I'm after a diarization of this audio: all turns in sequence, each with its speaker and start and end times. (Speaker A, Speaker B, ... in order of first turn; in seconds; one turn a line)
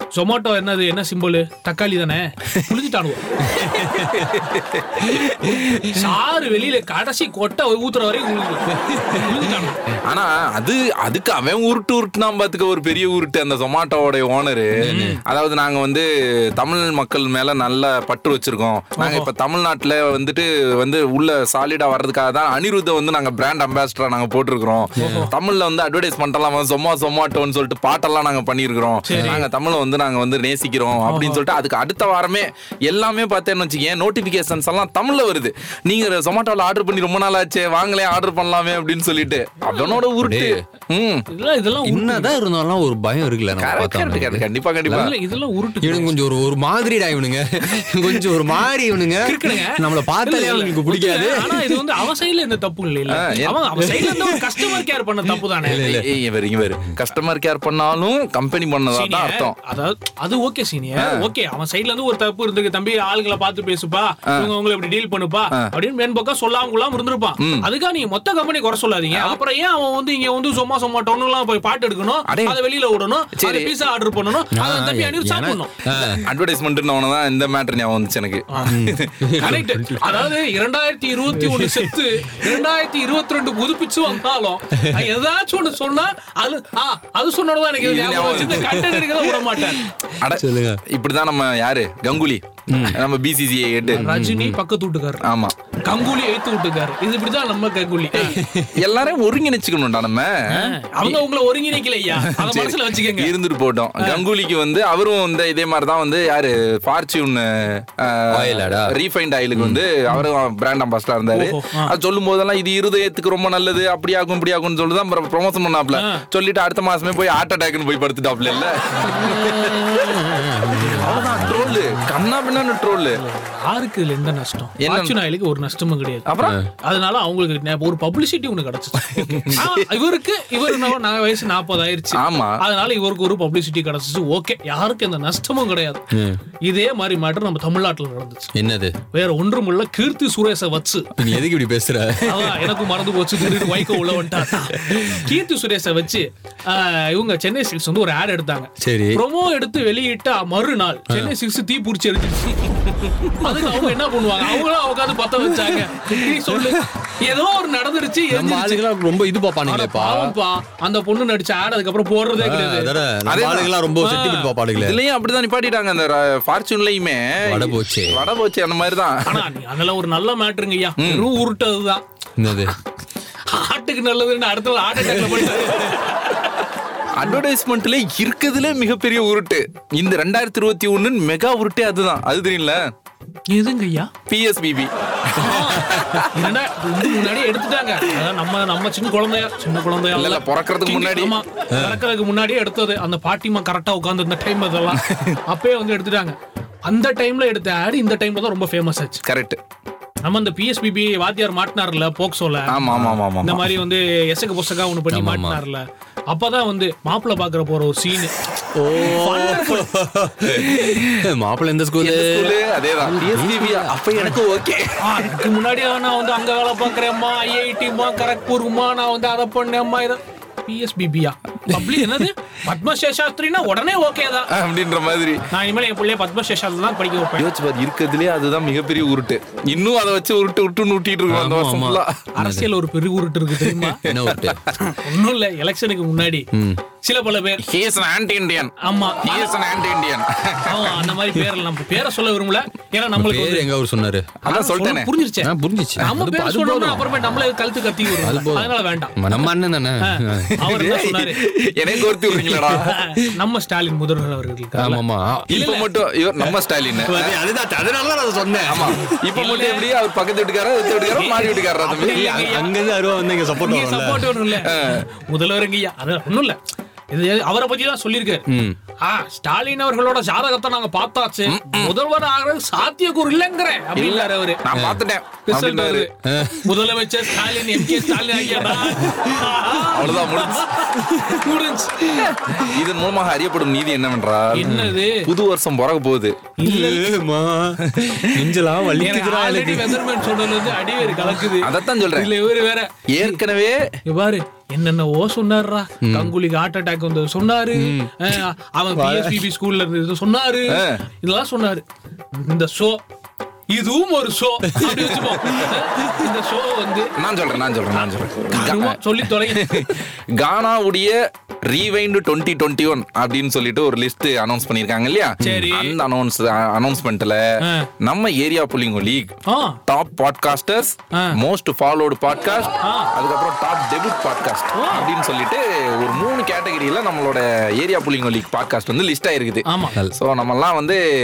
Speaker A: 0.1-3.4
Speaker B: 3.5-4.3
Speaker C: 3.6-6.1
Speaker A: 5.9-9.8
Speaker B: 8.7-9.5
Speaker C: 10.1-41.3
Speaker B: 14.8-15.2
Speaker A: 19.0-19.3
Speaker A: 25.0-25.3
Speaker B: 25.0-25.3
Speaker A: 29.1-29.4
Speaker B: 29.1-29.4
Speaker A: 31.1-31.4
Speaker A: 39.7-40.0
Speaker B: 40.2-40.5
Speaker A: 41.3-42.4
Speaker B: 41.8-45.1
Speaker C: 43.5-45.1
Speaker A: 44.9-46.1
Speaker B: 45.8-51.9
Speaker A: 49.2-55.8
Speaker C: 53.1-53.6
Speaker B: 53.8-54.7
Speaker B: 55.6-56.1
Speaker C: 55.8-59.6
Speaker A: 58.9-75.7
Speaker C: 61.0-61.3
Speaker C: 67.4-67.7
Speaker C: 69.1-69.4
Speaker C: 72.3-72.6
Speaker C: 73.4-73.7
Speaker B: 74.5-76.3
Speaker C: 76.1-79.7
Speaker A: 78.5-78.8
Speaker B: 78.7-80.3
Speaker A: 79.4-89.8
Speaker B: 81.2-82.6
Speaker B: 84.8-85.1
Speaker C: 87.8-88.9
Speaker B: 88.5-89.5
Speaker C: 90.1-94.1
Speaker B: 90.3-90.8
Speaker B: 92.7-93.0
Speaker B: 93.9-94.6
Speaker A: 93.9-95.3
Speaker C: 95.2-95.6
Speaker A: 95.8-98.3
Speaker C: 98.1-101.2
Speaker B: 98.2-98.7
Speaker A: 100.5-103.3
Speaker C: 102.2-120.3
Speaker A: 104.0-104.3
Speaker B: 108.3-109.0
Speaker A: 111.3-111.9
Speaker A: 116.0-116.2
Speaker B: 119.0-122.0
Speaker C: 120.9-123.2
Speaker A: 123.1-136.0
Speaker C: 124.8-125.2
Speaker C: 126.3-126.6
Speaker C: 129.1-129.9
Speaker C: 130.7-130.9
Speaker C: 132.2-132.6
Speaker B: 136.1-136.4
Speaker A: 136.7-138.5
Speaker B: 138.6-138.9
Speaker A: 139.1-141.3
Speaker B: 141.2-142.9
Speaker A: 142.2-158.8
Speaker B: 143.4-145.2
Speaker B: 148.8-149.2
Speaker B: 153.4-153.9
Speaker B: 156.6-156.8
Speaker B: 158.3-160.4
Speaker A: 159.7-162.9
Speaker B: 162.4-165.0
Speaker C: 163.3-163.8
Speaker A: 164.0-164.5
Speaker C: 164.7-169.3
Speaker B: 167.4-168.2
Speaker A: 169.3-172.0
Speaker C: 171.0-171.3
Speaker B: 172.4-172.8
Speaker A: 173.5-176.5
Speaker C: 177.2-182.8
Speaker A: 183.5-184.1
Speaker C: 184.3-186.5
Speaker A: 185.4-196.4
Speaker C: 190.1-191.4
Speaker B: 191.7-192.0
Speaker C: 194.9-195.4
Speaker A: 196.9-199.2
Speaker C: 199.2-199.6
Speaker A: 200.2-202.8
Speaker C: 202.7-203.6
Speaker B: 202.9-203.2
Speaker A: 203.4-208.3
Speaker B: 205.1-205.6
Speaker B: 208.8-214.0
Speaker A: 209.0-209.9
Speaker C: 209.4-209.8
Speaker C: 210.6-211.3
Speaker C: 212.0-215.4
Speaker A: 215.0-224.5
Speaker C: 224.5-225.4
Speaker A: 225.5-227.5
Speaker C: 227.4-232.3
Speaker B: 231.3-232.7
Speaker A: 232.4-234.0
Speaker C: 233.6-234.6
Speaker B: 234.1-234.7
Speaker A: 235.0-236.4
Speaker B: 236.5-236.8
Speaker A: 237.0-237.7
Speaker C: 237.6-241.3
Speaker A: 238.8-239.5
Speaker A: 240.7-243.7
Speaker B: 243.2-244.3
Speaker A: 244.4-249.2
Speaker C: 244.5-245.1
Speaker B: 245.4-247.5
Speaker B: 248.1-250.6
Speaker A: 250.0-251.4
Speaker C: 250.6-253.0
Speaker B: 252.3-252.9
Speaker A: 252.7-255.9
Speaker B: 254.8-255.6
Speaker C: 255.5-257.4
Speaker B: 256.4-259.1
Speaker C: 258.7-262.2
Speaker A: 259.3-259.9
Speaker A: 261.1-262.7
Speaker B: 261.9-264.4
Speaker A: 263.6-266.6
Speaker C: 264.5-265.1
Speaker A: 267.1-268.4
Speaker B: 268.5-268.8
Speaker A: 269.0-274.7
Speaker C: 271.5-272.0
Speaker C: 274.0-276.1
Speaker B: 274.7-275.0
Speaker A: 275.5-282.1
Speaker B: 276.2-279.6
Speaker C: 279.8-280.7
Speaker B: 281.1-281.4
Speaker C: 282.1-286.5
Speaker A: 284.5-285.3
Speaker B: 284.6-285.0
Speaker A: 286.6-287.1
Speaker B: 286.6-290.1
Speaker C: 287.9-288.5
Speaker A: 289.0-293.4
Speaker B: 291.0-291.4
Speaker C: 291.5-292.3
Speaker C: 293.1-293.8
Speaker A: 294.1-303.0
Speaker B: 296.0-296.3
Speaker B: 297.8-298.3
Speaker B: 298.9-299.5
Speaker C: 300.7-301.0
Speaker A: 303.7-307.1
Speaker B: 304.7-305.3
Speaker C: 307.2-317.4
Speaker A: 307.9-309.9
Speaker B: 315.4-315.8
Speaker A: 315.4-316.0
Speaker A: 317.6-317.9
Speaker C: 318.0-331.0
Speaker A: 319.5-319.8
Speaker A: 322.8-323.1
Speaker A: 324.8-325.1
Speaker A: 329.6-330.0